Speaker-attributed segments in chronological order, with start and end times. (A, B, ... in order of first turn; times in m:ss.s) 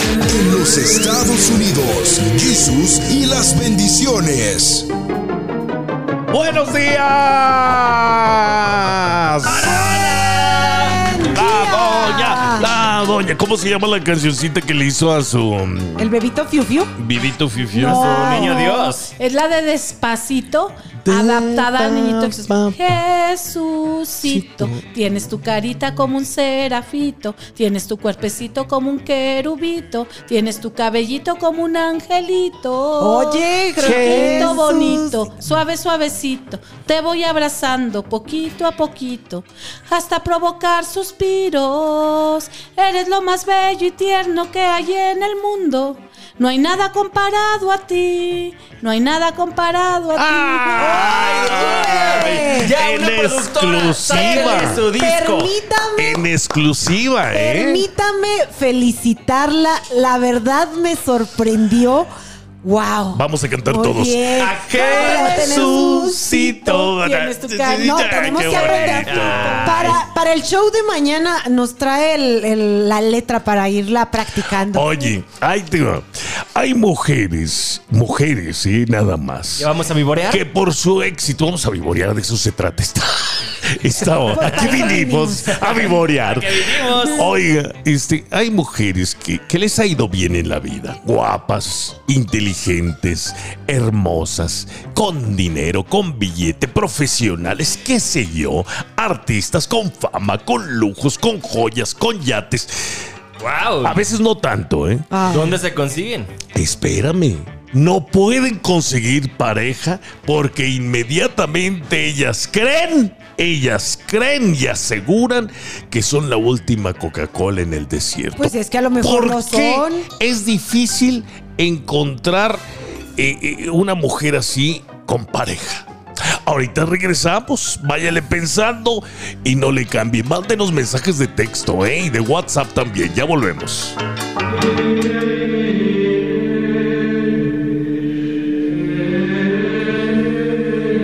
0:00.3-0:04.9 A
0:06.3-0:10.2 B
0:09.4-0:11.1 C
0:09.8-0:12.7 D
0:11.3-0:16.1 B
0:16.0-0:16.9 D
0:17.0-0:18.1 B
0:17.8-0:18.9 D
0:17.8-0:19.1 C
0:18.2-0:51.1 E
0:21.1-0:22.9 B
0:24.2-0:24.8 B
0:33.0-0:35.2 D
0:50.2-0:54.8 B
0:50.8-0:52.7 D
0:50.9-0:55.6 C
0:54.1-0:56.2 D
0:56.0-0:57.8 B
0:57.3-1:02.1 D
1:02.6-1:06.6 D
1:03.1-1:10.0 B
1:04.3-1:05.5 C
1:06.3-1:09.0 E
1:07.8-1:15.1 D
1:08.9-1:10.0 C
1:14.7-1:19.7 B
1:19.6-1:20.4 C
1:20.3-1:42.9 B
1:24.3-1:27.3 C
1:24.3-1:25.7 D
1:43.4-1:44.0 C
1:43.8-1:45.1 B
1:45.1-1:45.6 D
1:45.3-1:46.3 C
1:46.5-2:02.6 B
1:58.4-2:00.1 D
2:03.2-2:05.9 B
2:06.4-2:14.0 B